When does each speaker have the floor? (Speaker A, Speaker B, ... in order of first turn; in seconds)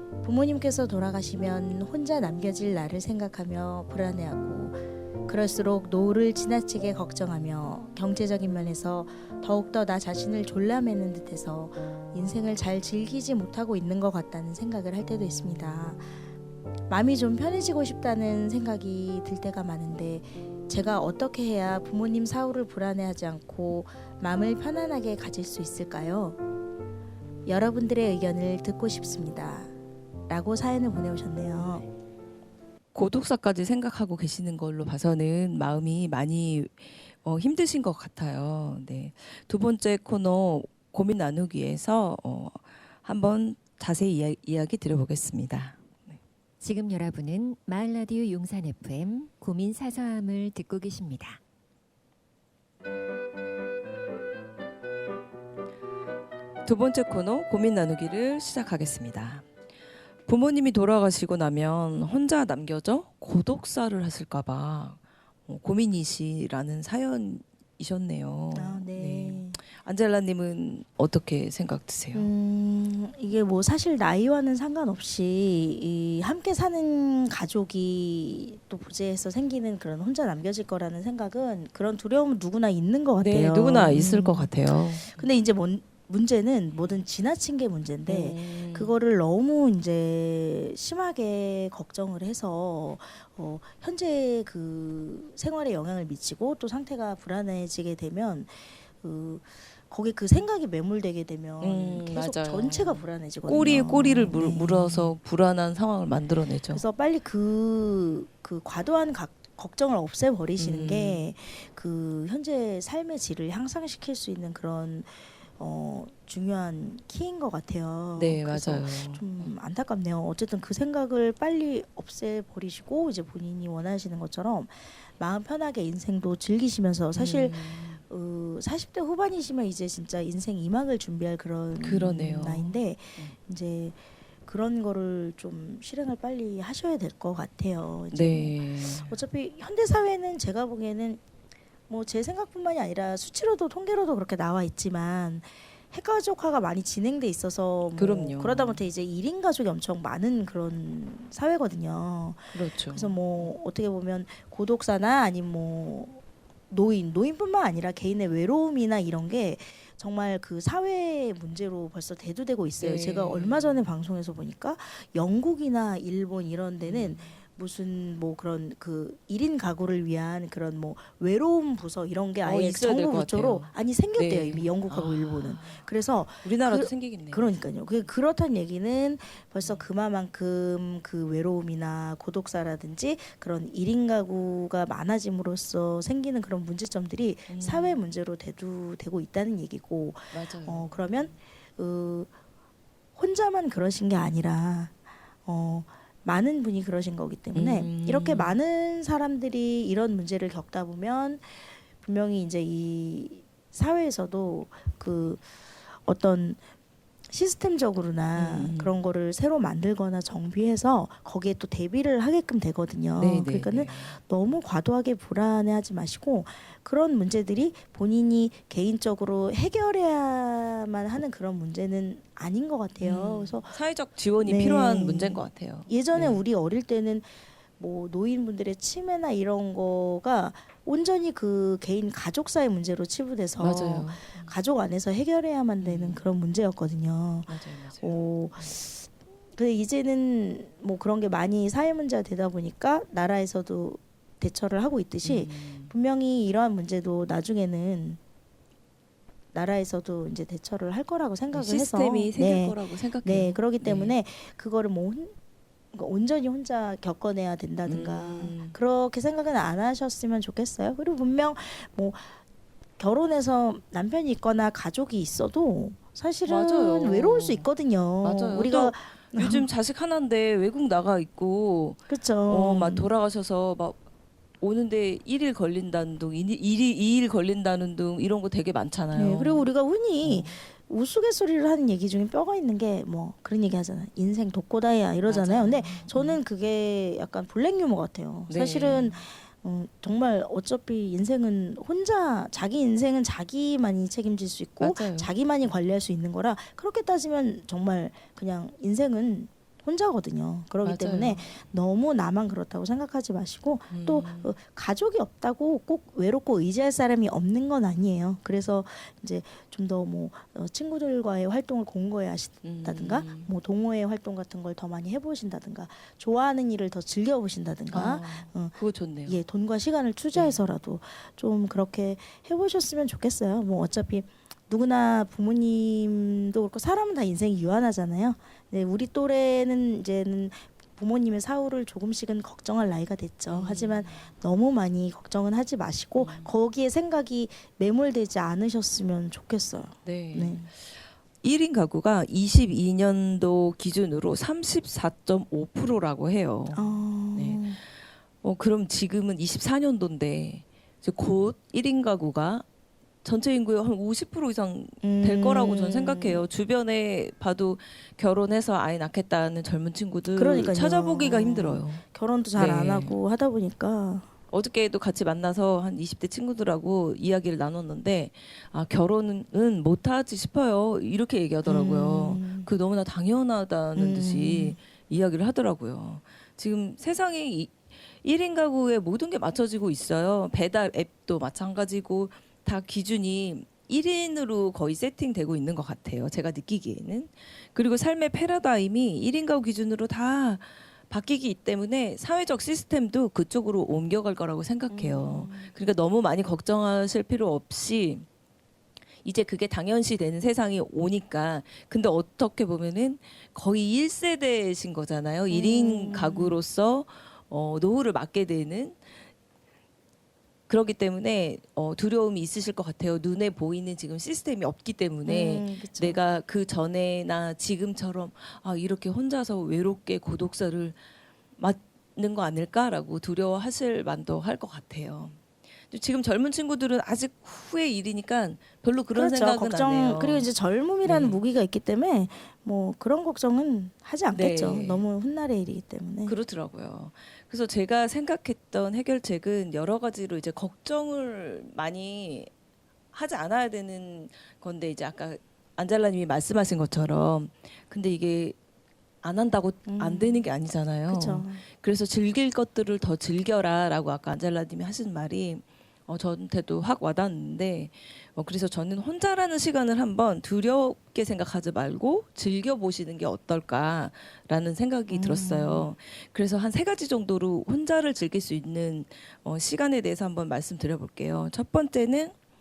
Speaker A: 0.2-16.1, 16.9-26.4, 27.4-29.7, 30.3-31.9, 68.5-69.6, 72.1-105.1, 106.7-141.2, 141.9-192.3, 193.2-194.9, 195.5-205.5, 206.0-206.6, 207.3-223.7, 224.4-248.2, 249.5-255.3, 255.9-262.3, 263.0-269.6, 272.1-273.1, 279.1-318.8, 319.2-340.7, 346.7-347.8, 355.0-356.4, 360.3-364.3, 371.6-372.7, 373.9-374.8, 394.9-395.7, 405.5-406.5, 415.2-416.2, 429.1-436.3, 449.9-450.4, 451.1-451.6, 465.1-465.9
Speaker B: 32.9-46.2, 56.6-59.5, 60.3-72.3, 83.2-85.2, 88.1-88.9, 101.6-106.8, 110.6-111.2, 118.2-119.5, 127.2-128.0, 131.8-133.3, 138.1-139.1, 148.0-148.8, 152.5-153.2, 162.8-163.8, 166.8-167.3, 172.4-175.9, 176.4-177.6, 179.6-179.9, 187.5-188.0, 190.3-191.4, 197.5-198.6, 208.3-209.0, 213.2-214.2, 223.0-226.4, 233.6-234.5, 235.8-236.2, 237.5-238.7, 245.2-245.9, 251.5-254.1, 257.9-258.8, 266.5-267.7, 268.2-274.0, 274.6-279.7, 280.2-280.6, 285.2-286.4, 288.5-289.2, 294.8-295.3, 300.8-301.5, 303.9-304.5, 312.6-313.5, 317.9-319.4, 320.3-320.6, 333.5-334.3, 336.1-336.5, 340.0-347.6, 348.4-352.6, 353.2-362.0, 362.6-363.1, 364.5-398.2, 399.2-409.0, 410.7-421.0, 421.6-425.4, 425.9-430.5, 431.0-431.4, 434.3-435.0, 436.2-442.5, 443.1-448.6, 449.2-472.3
Speaker C: 46.6-51.4